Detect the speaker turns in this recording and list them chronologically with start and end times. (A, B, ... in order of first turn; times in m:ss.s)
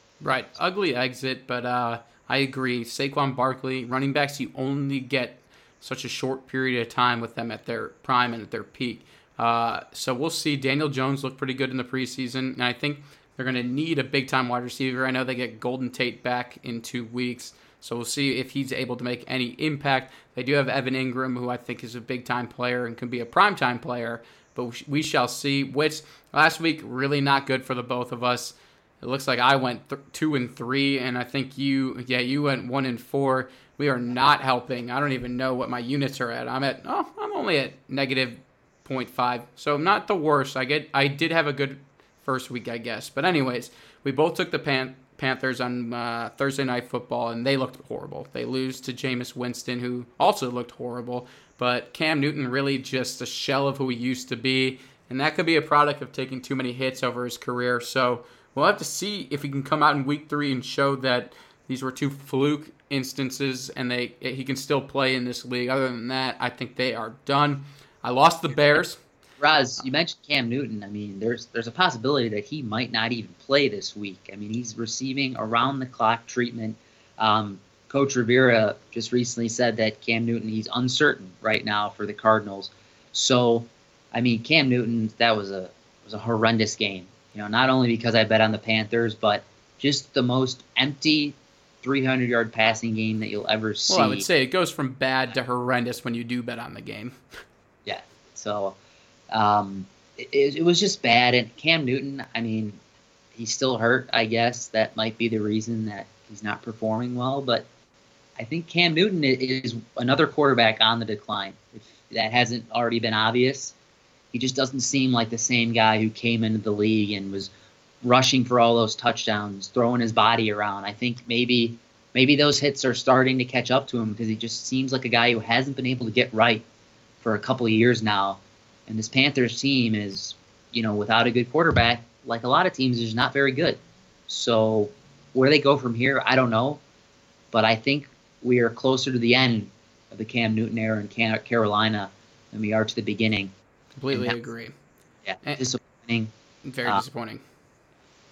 0:00.2-1:09.0 A
1:09.4-1:34.3 B
1:33.9-1:37.2 A
1:37.9-1:38.8 B
1:39.3-1:42.8 B
1:43.4-1:47.7 B
1:48.4-1:53.7 B
1:54.3-1:57.5 B
1:58.0-2:06.6 B
2:07.2-2:16.8 B
2:17.5-2:23.5 B
2:24.0-2:24.7 A
2:24.1-2:24.4 B
2:25.3-2:26.3 B
2:26.7-2:27.4 A